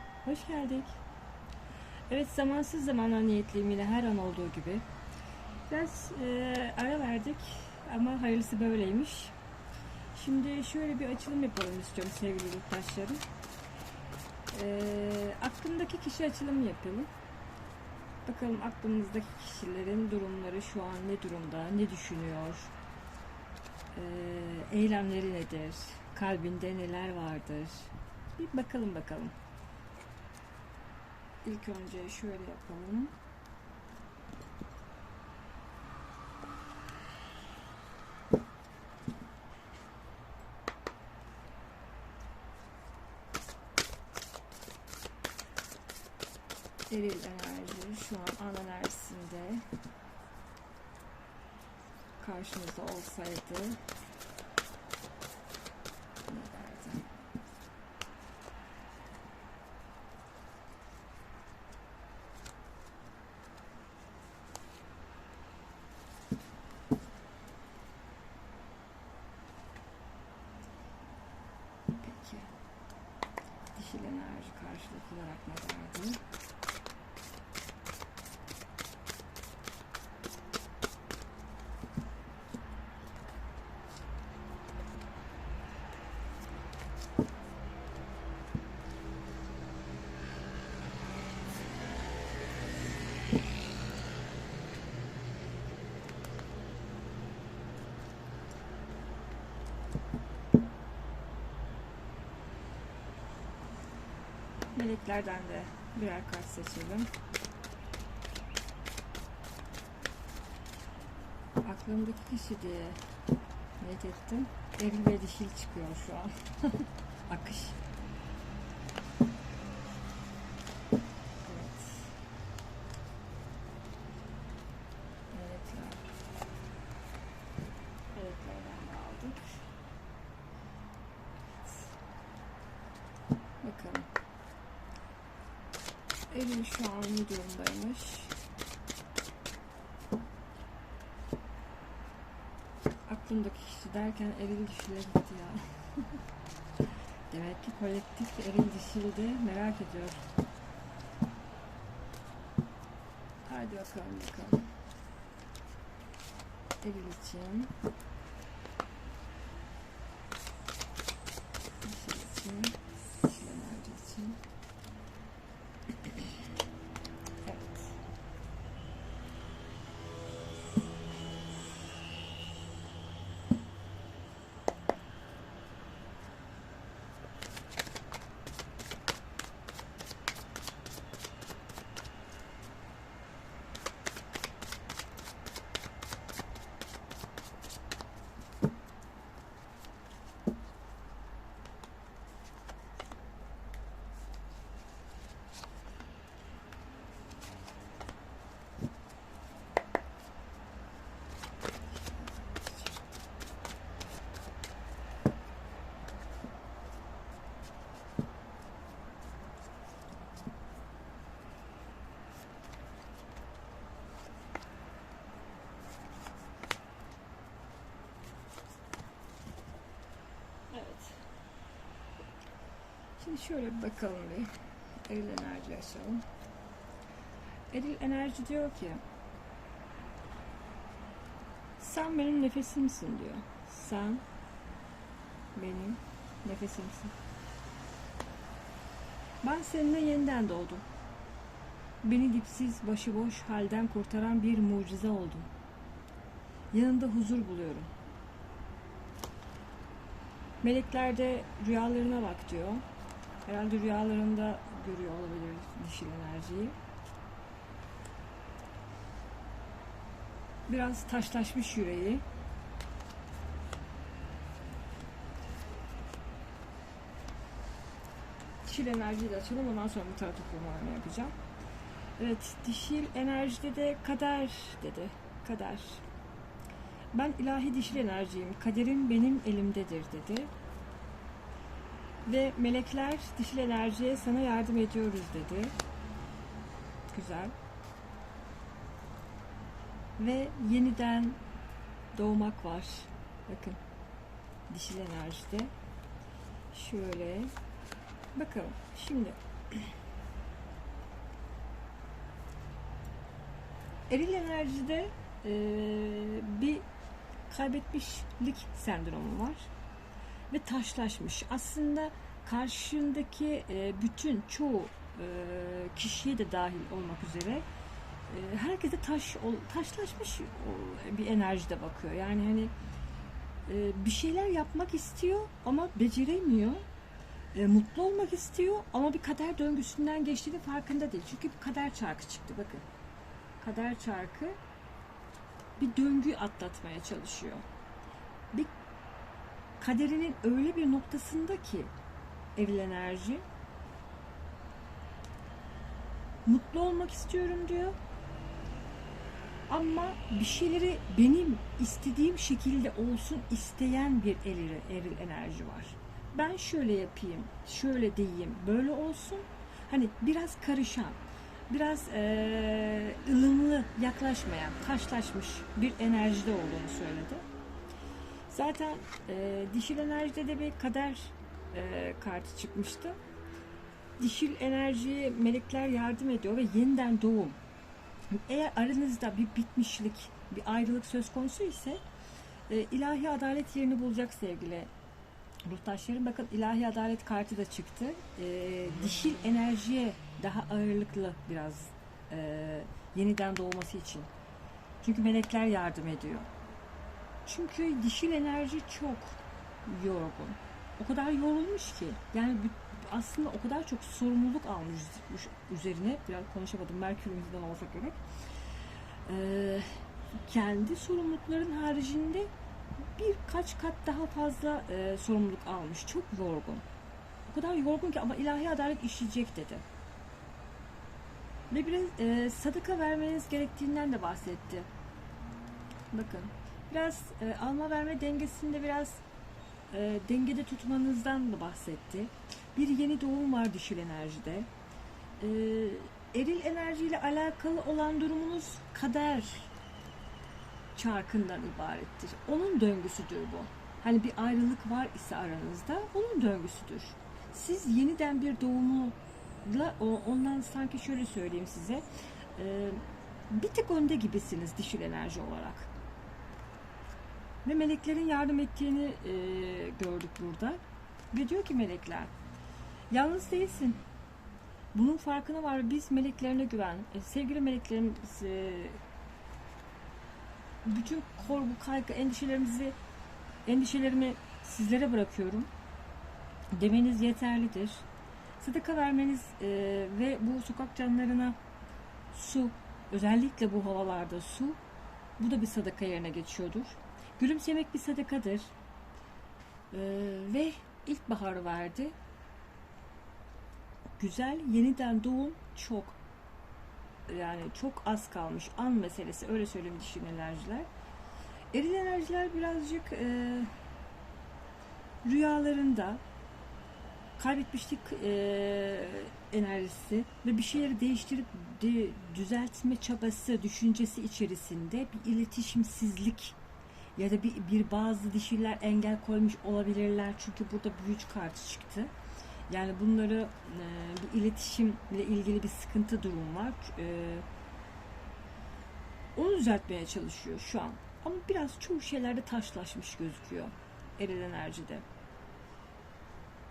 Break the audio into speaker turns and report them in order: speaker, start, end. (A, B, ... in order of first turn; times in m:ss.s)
0:00.2-0:01.0 A
0:02.1-0:04.8 A
0:05.7-0:09.3 A
0:10.1-0:13.2 A
0:14.5-0:17.1 A
0:18.2-0:22.7 A
0:23.9-0:29.3 A
0:31.4-0:33.1 A
0:46.9-0:49.6 A
0:52.2-0:53.8 A
0:56.3-0:57.1 A
1:11.9-1:12.5 A
1:13.7-1:16.2 A
1:44.7-1:47.1 A
1:51.6-1:53.0 A
1:53.8-1:57.8 A
2:01.4-2:02.1 A
2:05.3-2:06.0 A
2:08.1-2:09.5 A
2:13.6-2:14.1 A
2:16.3-2:18.4 A
2:23.1-2:26.1 A
2:27.3-2:30.2 A
2:33.4-2:34.7 A
2:36.8-2:37.7 A
2:41.8-2:44.4 A
2:46.0-2:46.3 A
2:47.4-2:48.0 A
3:22.6-3:22.9 A
3:40.7-3:41.2 A
3:43.2-3:44.5 A
3:45.1-3:46.2 A
3:47.7-3:49.0 A
3:51.8-3:54.2 A
3:55.5-3:57.1 A
3:59.4-4:00.8 A
4:02.0-4:05.5 A
4:06.7-4:07.9 A
4:10.6-4:12.8 A
4:13.4-4:16.8 A
4:20.7-4:22.2 A
4:28.6-4:31.3 A
4:32.2-4:36.0 A
4:37.1-4:40.5 A
4:42.2-4:45.7 A
4:47.1-4:47.5 A
4:50.2-4:51.4 A
4:52.1-4:53.8 A
4:54.7-4:55.7 A
4:56.7-4:57.5 A
4:58.3-4:59.9 A
5:04.1-5:06.8 A
5:07.5-5:09.7 A
5:10.5-5:17.6 A
5:18.3-5:22.7 A
5:23.6-5:26.8 A
5:27.5-5:32.8 A
5:33.6-5:34.6 A
5:35.8-5:37.6 A
5:39.8-5:41.9 A
5:42.6-5:43.4 A
5:46.4-5:48.0 A
5:49.7-6:07.4 A
6:08.5-6:13.2 A
6:14.2-6:17.6 A
6:18.3-6:22.0 A
6:22.7-6:24.9 A
6:25.6-6:34.3 A
6:35.0-6:36.5 A
6:37.4-6:48.2 A
6:49.2-6:52.5 A
6:53.1-6:56.8 A
6:57.4-6:59.8 A
7:01.7-7:04.9 A
7:06.1-7:09.2 A
7:09.9-7:14.7 A
7:15.4-7:19.7 A
7:20.9-7:35.9 A
7:37.6-7:42.3 A
7:43.1-7:44.0 A
7:44.9-7:49.0 A
7:50.8-7:53.0 A
7:53.6-7:55.7 A
7:56.7-7:58.0 A
7:58.6-8:01.6 A
8:02.3-8:04.8 A
8:05.4-8:08.7 A
8:09.9-8:12.1 A
8:14.2-8:16.2 A
8:17.3-8:20.9 A
8:21.7-8:23.7 A
8:25.2-8:26.2 A
8:27.4-8:36.6 A
8:37.2-8:42.1 A
8:42.7-8:47.5 A
8:49.3-8:55.0 A